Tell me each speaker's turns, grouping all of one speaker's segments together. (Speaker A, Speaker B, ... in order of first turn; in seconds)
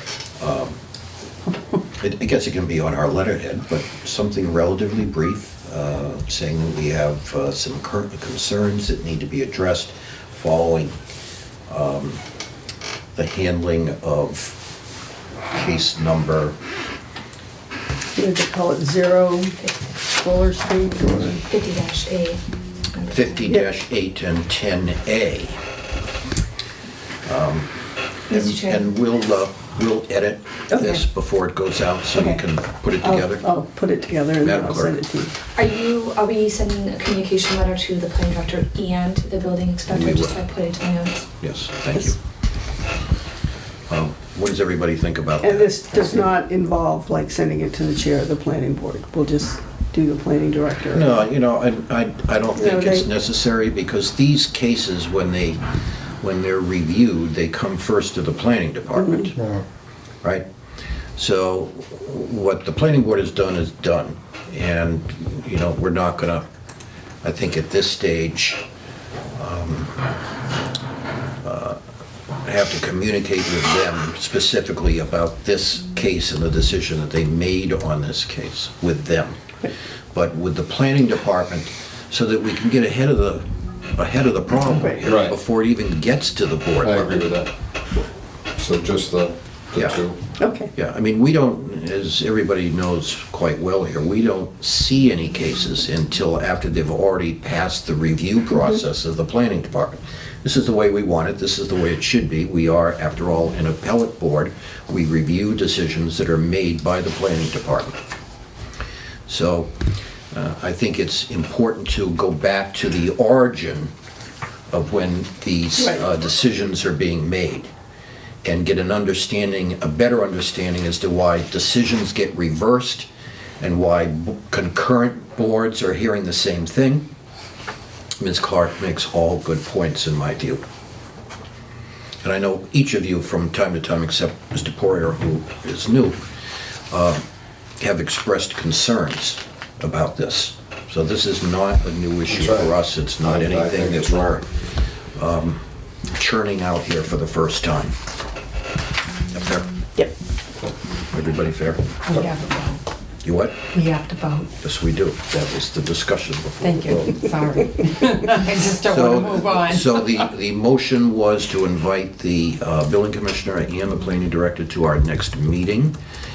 Speaker A: 0.4-0.8, 1.9-10.9, 11.7-12.2, 13.2-14.6, 15.5-16.6, 23.1-25.6, 27.2-27.7, 28.3-33.5, 34.4-35.0, 39.9-40.5, 41.4-42.2, 43.9-46.3, 50.9-55.6, 56.2-59.4, 61.2-66.5, 67.2-68.6, 69.4-70.0, 71.4-71.8, 72.4-79.4, 80.1-87.3, 89.8-90.0, 90.7-108.0, 109.3-109.7, 110.3-113.9, 114.7-117.7, 118.4-123.1, 123.6-127.1, 128.2-130.6, 132.2-136.2, 136.9-137.2, 137.8-145.6, 146.1-147.9, 149.3-149.7, 151.1-152.2, 153.2-153.6, 154.6-157.2, 158.8-165.9
Speaker B: 18.1-21.4, 30.7-31.0, 32.1-32.4, 33.0-35.3, 45.4-51.2, 52.6-53.1, 59.0-59.3, 90.4-90.7, 115.8-116.0
Speaker C: 19.6-19.9, 21.5-22.4, 22.9-23.5, 28.3-28.9, 35.6-41.3
Speaker D: 59.4-59.6, 85.0-85.4, 86.8-87.5, 88.6-90.2, 142.3-142.7, 143.2-144.4
Speaker E: 152.1-152.8, 153.7-154.5, 156.6-160.0